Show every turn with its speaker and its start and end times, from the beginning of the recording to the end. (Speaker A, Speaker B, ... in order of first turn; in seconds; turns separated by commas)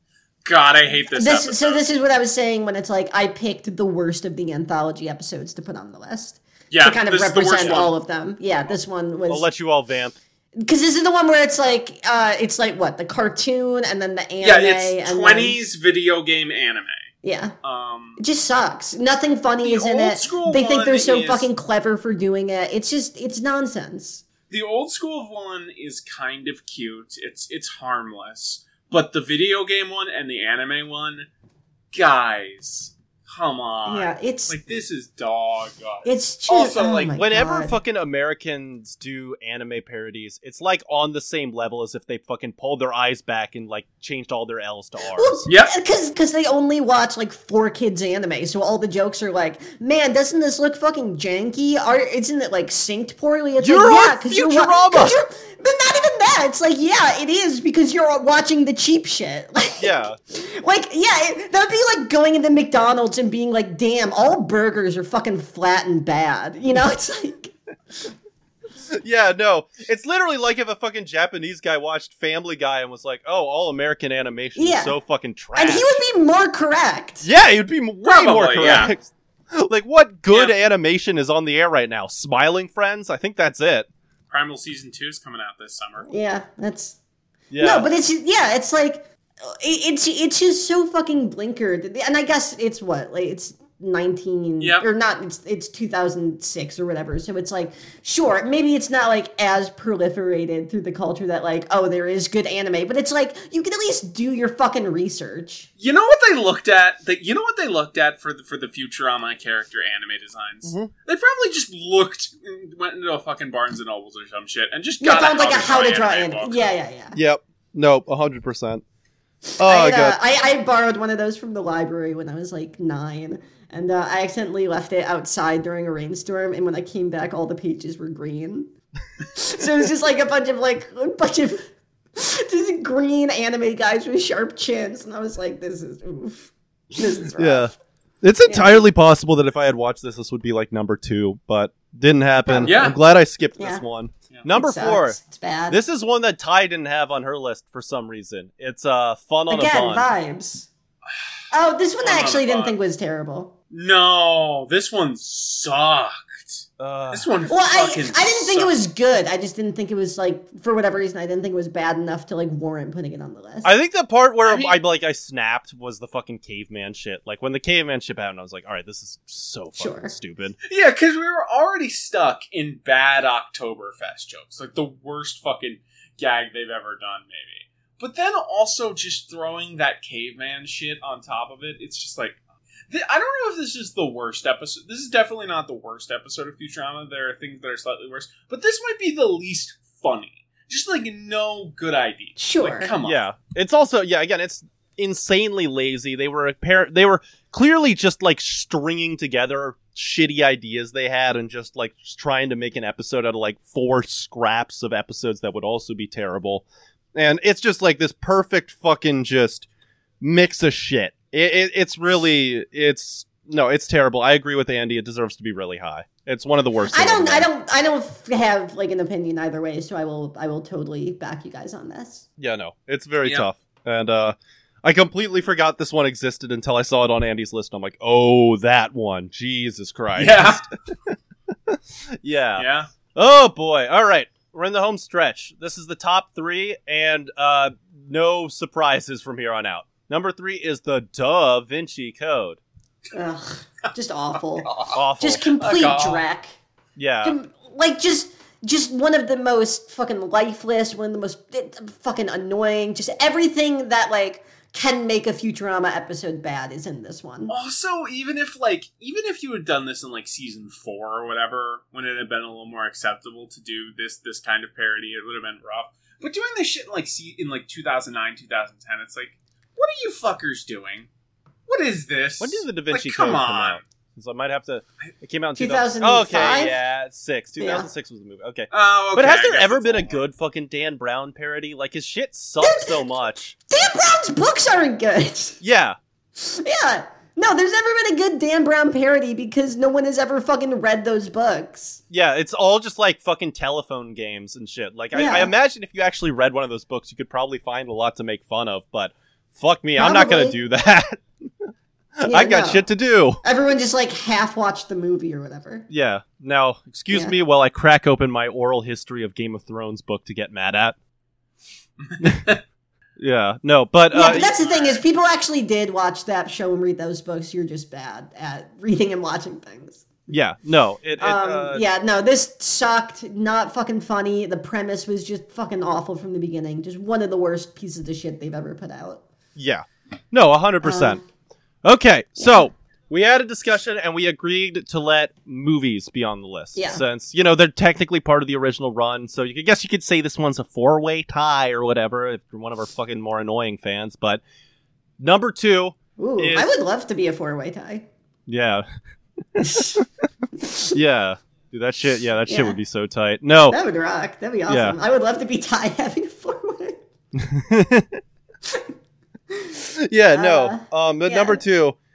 Speaker A: 0.5-1.8, Speaker B: 1.1-9.4, Speaker A: 6.7-8.0, Speaker C: 9.3-10.2, Speaker B: 10.6-15.6, Speaker A: 14.4-17.0, Speaker B: 17.2-17.5, Speaker A: 17.6-18.2, Speaker B: 18.2-24.2, Speaker A: 19.6-21.5, Speaker A: 24.5-31.3, Speaker A: 31.9-37.2, Speaker B: 33.9-34.6, Speaker B: 36.0-37.8, Speaker C: 37.1-45.4, Speaker B: 45.1-67.5, Speaker A: 45.5-45.7, Speaker C: 53.6-55.2, Speaker C: 59.8-60.2, Speaker C: 68.9-76.0, Speaker B: 74.6-75.0, Speaker B: 75.5-77.3, Speaker C: 77.2-83.9, Speaker A: 78.0-78.9, Speaker A: 80.3-80.5, Speaker A: 84.3-86.1, Speaker B: 86.1-87.0, Speaker C: 87.5-87.9, Speaker B: 87.6-105.7, Speaker A: 94.6-94.9, Speaker A: 105.8-116.7, Speaker C: 110.6-110.9, Speaker B: 115.0-117.2, Speaker C: 117.1-118.8, Speaker B: 119.6-128.7, Speaker C: 119.6-120.2, Speaker B: 129.2-137.7, Speaker C: 137.4-145.2, Speaker B: 138.4-138.9, Speaker B: 142.4-142.7, Speaker A: 142.6-143.0, Speaker B: 143.6-143.8, Speaker B: 144.5-145.8, Speaker C: 145.7-150.1, Speaker B: 149.5-150.7, Speaker B: 151.5-153.5, Speaker A: 152.0-152.8, Speaker A: 153.7-158.8, Speaker C: 156.8-157.3, Speaker B: 157.5-163.7, Speaker C: 163.6-170.6, Speaker A: 164.4-164.7, Speaker B: 169.8-170.1, Speaker A: 170.6-193.2, Speaker B: 192.4-192.9, Speaker C: 193.0-209.7, Speaker C: 210.2-217.5, Speaker B: 216.9-222.2, Speaker C: 222.4-231.2, Speaker A: 230.2-230.6, Speaker C: 231.7-242.6, Speaker A: 232.6-232.9, Speaker B: 243.1-246.6, Speaker A: 244.6-245.0, Speaker C: 244.9-245.5, Speaker A: 245.6-246.2, Speaker C: 246.9-247.4, Speaker B: 247.2-257.5, Speaker A: 257.5-271.1, Speaker A: 271.7-273.8, Speaker C: 272.4-283.6, Speaker B: 275.6-276.7, Speaker B: 277.6-277.9, Speaker A: 278.7-280.2, Speaker B: 282.6-283.0, Speaker B: 283.7-285.6, Speaker C: 285.6-286.0, Speaker B: 286.4-292.0, Speaker C: 292.1-303.4, Speaker B: 295.1-295.5, Speaker B: 299.9-300.6, Speaker B: 302.2-302.8, Speaker B: 303.4-305.9, Speaker C: 305.9-310.9, Speaker A: 312.1-312.6, Speaker C: 312.2-312.4, Speaker C: 313.2-314.6, Speaker B: 314.1-320.0, Speaker A: 314.4-315.0, Speaker C: 320.3-321.9, Speaker B: 321.2-329.2, Speaker C: 329.6-331.2, Speaker B: 330.8-331.2, Speaker C: 331.8-344.4, Speaker B: 332.4-332.7, Speaker B: 336.7-337.0, Speaker C: 345.2-346.7, Speaker B: 346.2-348.1, Speaker C: 348.5-348.9, Speaker C: 349.5-350.1, Speaker B: 349.7-350.0, Speaker C: 350.6-353.8, Speaker B: 350.7-350.9, Speaker B: 352.5-352.8, Speaker B: 353.7-357.0, Speaker C: 354.7-354.9, Speaker C: 357.3-358.2, Speaker C: 360.0-361.9, Speaker B: 360.3-361.6